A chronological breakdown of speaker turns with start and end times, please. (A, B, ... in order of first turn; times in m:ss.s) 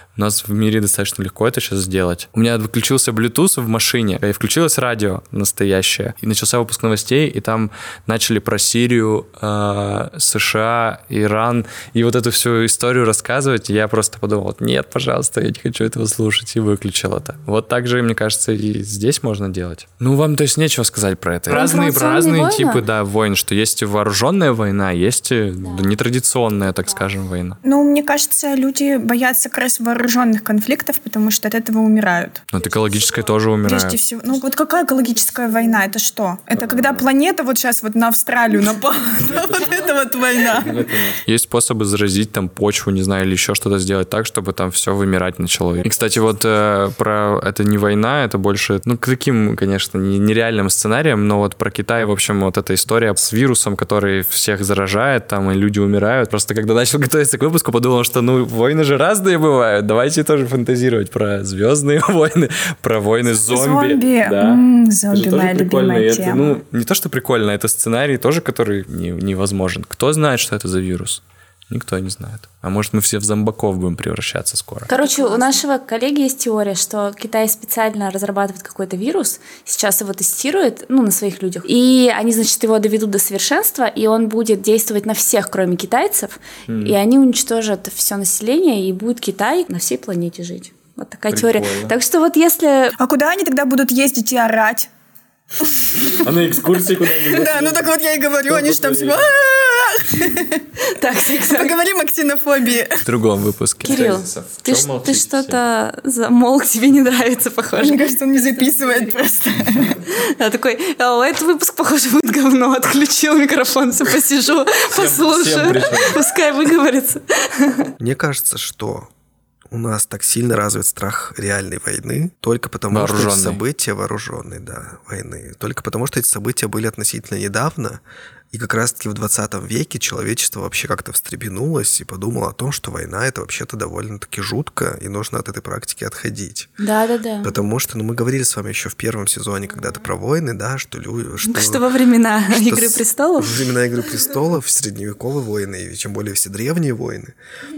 0:00.2-0:27.6 A
0:21.5-0:22.8 B
0:27.6-0:32.4 C
0:32.5-0:34.0 A
0:33.6-0:41.0 C
0:36.5-0:37.1 A
0:39.3-0:39.6 A
0:40.4-1:14.9 A
1:03.5-1:06.4 C
1:14.9-1:15.6 C
1:14.9-1:32.9 B
1:26.7-1:27.0 A
1:31.3-1:31.9 A
1:33.0-1:34.9 C
1:35.6-1:36.2 C
1:36.1-1:39.3 A
1:36.8-1:40.7 C
1:40.9-1:41.8 B
1:41.5-1:43.1 C
1:43.0-1:45.6 A
1:43.8-1:48.0 B
1:47.8-1:50.0 C
1:50.0-1:57.9 B
1:54.9-1:56.2 A
1:58.0-1:59.1 D
1:59.7-2:08.0 D
2:02.9-2:03.6 A
2:08.5-2:16.7 D
2:16.8-2:17.5 B
2:17.4-2:21.9 D
2:21.4-2:23.6 B
2:22.5-2:27.3 D